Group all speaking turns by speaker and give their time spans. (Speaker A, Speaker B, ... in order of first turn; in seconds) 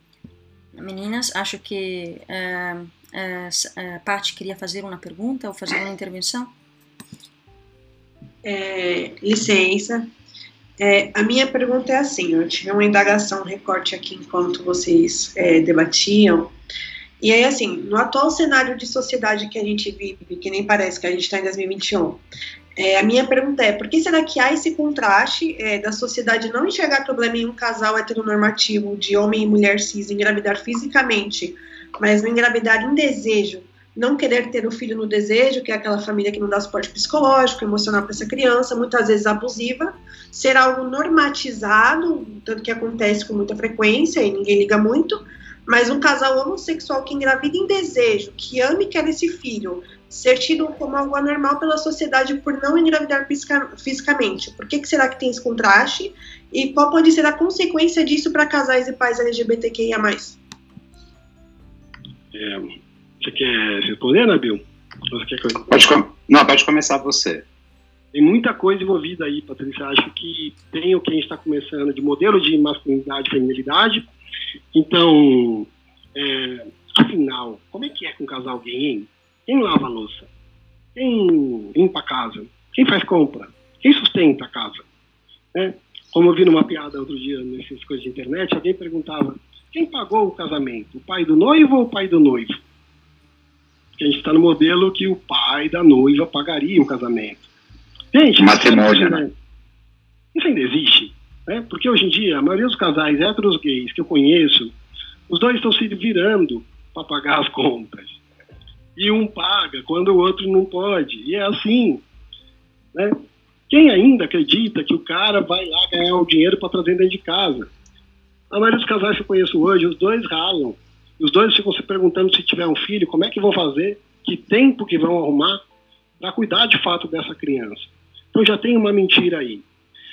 Speaker A: 0.8-6.5
Speaker B: 8.4-10.1, 10.8-16.5, 17.2-22.2, 22.8-60.4
Speaker C: 62.3-62.7, 63.2-64.6, 65.1-65.7, 68.1-74.1, 74.7-80.3, 81.0-84.8, 85.5-92.6, 94.0-97.5, 98.1-99.3, 100.3-104.7, 105.3-108.2, 109.0-112.0, 113.7-117.7, 118.5-125.6, 126.2-129.7
Speaker D: 65.7-67.4, 98.4-99.2